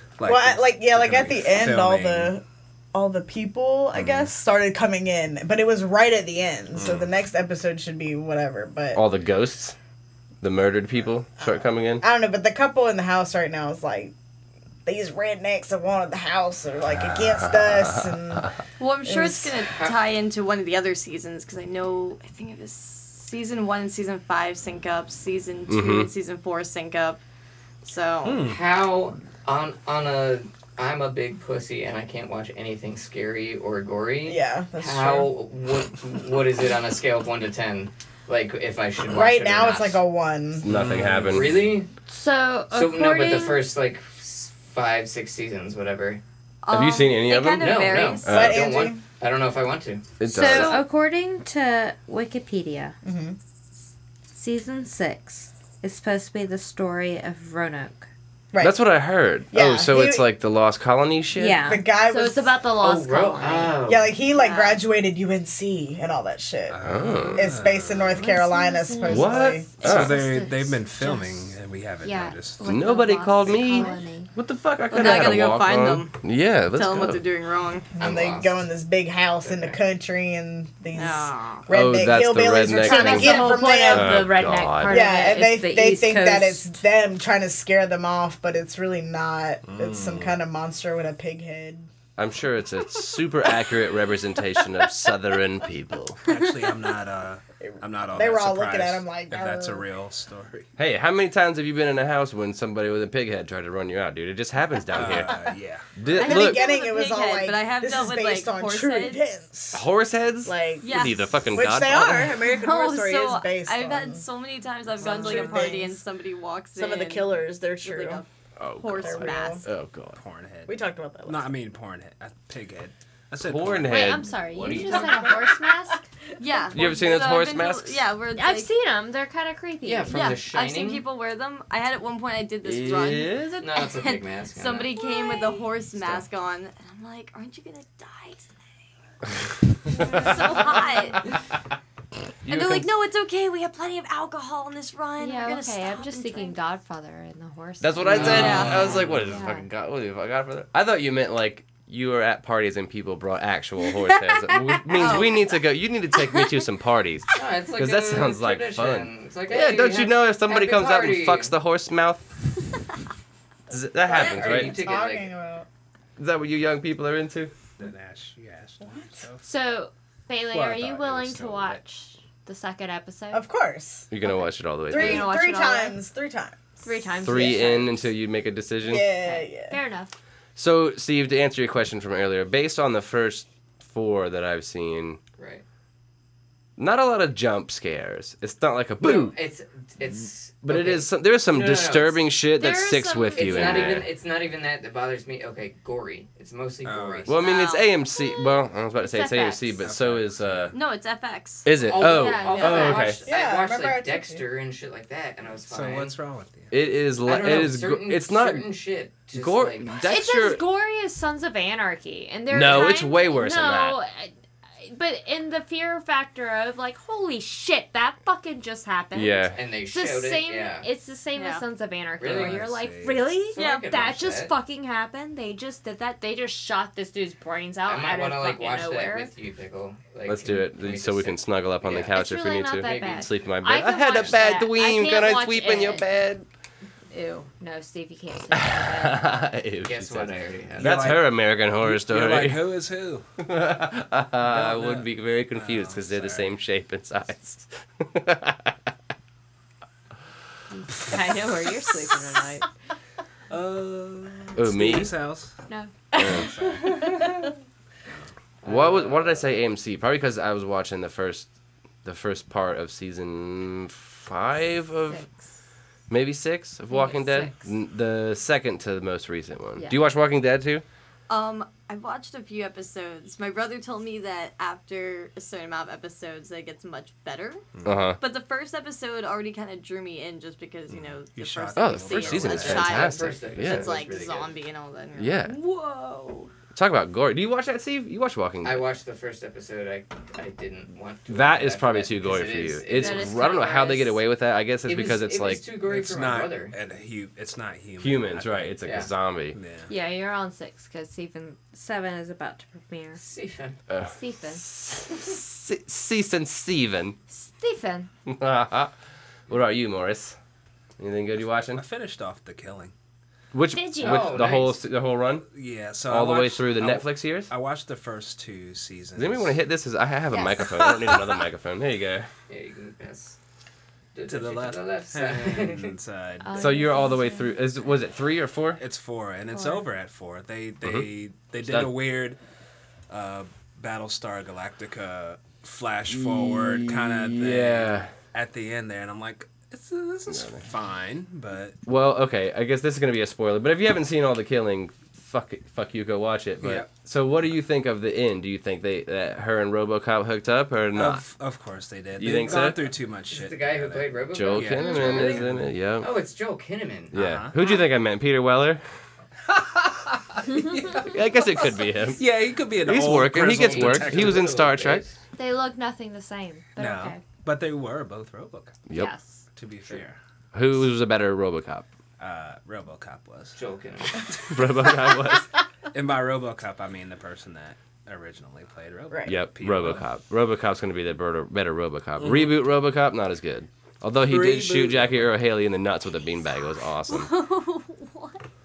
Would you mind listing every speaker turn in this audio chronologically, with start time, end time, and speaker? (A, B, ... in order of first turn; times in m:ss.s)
0:00.2-0:02.3 A
0:00.2-0:09.0 B
0:04.0-0:04.3 A
0:06.7-0:07.1 A
0:08.9-0:09.7 C
0:10.4-0:12.0 C
0:11.4-0:14.1 B
0:14.8-0:18.5 B
0:16.9-0:18.5 C
0:18.8-0:27.2 D
0:19.0-0:19.5 B
0:25.7-0:26.1 C
0:27.8-0:28.4 D
0:28.2-0:28.6 A
0:28.4-0:40.0 E
0:34.2-0:35.3 B
0:39.1-0:40.7 B
0:40.6-0:41.6 C
0:40.6-0:41.6 A
0:41.3-0:41.9 E
0:42.1-0:43.7 F
0:42.7-0:46.2 E
0:46.6-0:48.3 D
0:46.7-0:48.6 C
0:47.6-0:50.8 E
0:48.3-0:49.0 B
0:50.2-0:50.8 C
0:50.2-0:53.0 F
0:53.0-0:53.4 B
0:54.3-0:58.1 F
0:58.5-0:58.8 B
0:58.6-1:01.6 C
0:59.5-1:00.3 B
1:01.4-1:03.8 F
1:01.6-1:02.6 B
1:02.8-1:04.1 E
1:03.8-1:09.8 B
1:04.4-1:04.8 F
1:04.4-1:04.7 D
1:06.7-1:08.2 A
1:06.8-1:07.4 C
1:08.0-1:14.3 F
1:09.0-1:10.2 C
1:09.8-1:12.8 A
1:12.6-1:17.2 C
1:14.9-1:16.2 D
1:15.0-1:15.3 F
1:16.7-1:17.9 D
1:18.0-1:24.3 B
1:18.0-1:18.6 E
1:19.4-1:19.8 E
1:20.9-1:21.7 D
1:21.7-1:25.2 C
1:22.8-1:26.8 F
1:23.0-1:23.4 D
1:24.8-1:31.9 B
1:29.6-1:30.4 A
1:32.2-1:36.2 C
1:36.2-1:40.7 A
1:37.6-1:39.9 B
1:40.8-1:45.4 C
1:44.9-1:46.0 A
1:45.0-1:45.5 B
1:46.0-1:46.6 C
1:46.1-1:49.9 B
1:46.2-1:49.2 D
1:49.7-1:52.3 C
1:50.4-1:54.2 B
1:50.8-1:51.3 D
1:52.4-1:58.3 D
1:55.0-1:56.0 B
1:55.0-1:55.7 F
1:56.7-1:58.2 B
1:58.6-2:00.2 C
1:58.8-1:59.6 D
1:59.0-1:59.6 B
2:00.2-2:04.2 A
2:00.7-2:01.5 B
2:03.4-2:05.2 C
2:03.9-2:06.0 F
2:05.0-2:05.7 B
2:06.4-2:08.7 D
2:06.7-2:08.0 C
2:08.3-2:10.4 F
2:09.8-2:11.0 E
2:10.1-2:18.9 D
2:12.6-2:13.7 C
2:13.6-2:15.0 E
2:14.9-2:15.7 F
2:19.9-2:21.2 D
2:20.1-2:20.6 C
2:22.4-2:22.9 C
2:22.4-2:26.6 D
2:25.2-2:29.7 F
2:27.8-2:42.3 C
2:28.0-2:29.3 E
2:28.1-2:29.0 D
2:34.9-2:35.5 D
2:37.3-2:41.6 E
2:43.7-2:44.8 C
2:44.1-2:45.3 E
2:44.1-2:45.7 B
2:46.2-2:47.5 C
2:47.8-2:49.4 A
2:49.4-2:53.4 F
2:50.4-2:51.8 A
2:53.3-2:54.1 B
2:54.1-2:55.3 C
2:54.2-2:56.0 F
2:54.9-2:56.6 B
2:56.8-2:58.1 F
2:57.2-2:59.1 C
2:58.8-2:59.8 B
2:59.1-3:00.1 F
3:00.6-3:05.2 C
3:05.4-3:05.6 E
3:06.8-3:09.4 C
3:09.0-3:12.2 E
3:10.6-3:14.1 C
3:12.5-3:14.1 F
3:13.3-3:17.3 E
3:16.8-3:17.3 A
3:17.2-3:20.7 C
3:17.4-3:17.9 D
3:19.0-3:19.8 F
3:19.8-3:20.8 A
3:20.7-3:21.7 D
3:21.6-3:23.2 C
3:21.8-3:26.1 E
3:22.0-3:23.2 F
3:22.5-3:23.0 D
3:23.2-3:24.4 B
3:25.7-3:26.8 A
3:26.7-3:28.7 C
3:27.2-3:30.0 E
3:29.3-3:30.6 C
3:30.0-3:49.3 F
3:32.5-3:34.0 C
3:39.1-3:39.6 C
3:39.5-3:40.9 E
3:41.3-3:41.6 D
3:42.2-3:42.6 E
3:42.2-3:43.4 A
3:43.5-3:44.5 E
3:43.6-3:43.8 D
3:47.8-3:52.1 E
3:50.3-3:56.4 C
3:52.1-3:56.1 F
3:52.7-3:53.4 E
3:54.1-3:54.4 E
3:57.1-3:59.2 F
3:58.5-4:02.7 C
3:59.8-4:01.1 E
4:00.8-4:03.2 A
4:03.4-4:08.7 C
4:04.4-4:06.5 A
4:10.7-4:12.7 F
4:13.5-4:15.6 A
4:14.5-4:15.2 C
4:15.7-4:16.4 F
4:16.1-4:17.1 A
4:16.2-4:16.5 C
4:18.6-4:19.6 E
4:18.6-4:21.5 C
4:22.0-4:25.2 C
4:26.1-4:30.8 C
4:26.9-4:27.7 F
4:31.3-4:37.6 D
4:37.7-4:38.1 A
4:37.8-4:38.2 C
4:38.2-4:46.5 D
4:40.9-4:43.1 A
4:41.8-4:43.9 C
4:42.5-4:44.6 E
4:45.2-4:45.6 C
4:46.7-4:48.9 C
4:48.6-4:53.4 E
4:51.3-4:55.6 C
4:52.9-4:54.2 F
4:54.8-4:56.7 E
4:55.8-4:58.8 A
4:58.0-4:59.6 C
4:58.8-4:59.1 E
4:59.5-4:59.9 A
4:59.9-5:03.2 F
5:03.2-5:03.8 E
5:03.9-5:07.2 C
5:04.0-5:04.6 F
5:07.3-5:08.1 F
5:08.3-5:08.9 C
5:09.5-5:10.4 C
5:11.0-5:11.8 C
5:11.7-5:12.9 A
5:13.5-5:15.5 C
5:13.7-5:14.7 F
5:14.0-5:14.8 E
5:15.5-5:19.6 A
5:16.0-5:17.5 C
5:19.1-5:22.3 C
5:20.6-5:21.4 A
5:22.5-5:23.4 E
5:24.1-5:26.0 E
5:24.2-5:26.9 A
5:26.4-5:27.6 F
5:26.6-5:28.8 C
5:28.8-5:32.4 A
5:29.5-5:29.9 F
5:30.8-5:32.0 C
5:33.1-5:41.8 A
5:36.1-5:38.1 C
5:40.3-5:40.7 C
5:41.8-5:51.2 C
5:46.6-5:46.9 A
5:50.9-5:55.7 A
5:52.1-5:52.9 C
5:53.3-5:55.5 E
5:54.3-5:56.1 C
5:56.0-5:57.1 E
5:57.1-5:57.6 A
5:57.1-5:58.8 C
5:59.4-6:04.6 A
6:01.0-6:05.0 C
6:03.6-6:05.2 E
6:05.4-6:07.2 F
6:06.8-6:08.8 A
6:08.9-6:09.4 F
6:09.5-6:10.2 A
6:10.5-6:11.9 C
6:12.2-6:13.6 A
6:13.5-6:14.3 E
6:14.2-6:15.0 A
6:14.5-6:15.5 C
6:15.9-6:20.0 A
6:19.1-6:19.3 B
6:19.2-6:27.3 C
6:22.2-6:22.6 A
6:24.2-6:25.3 A
6:27.1-6:28.4 D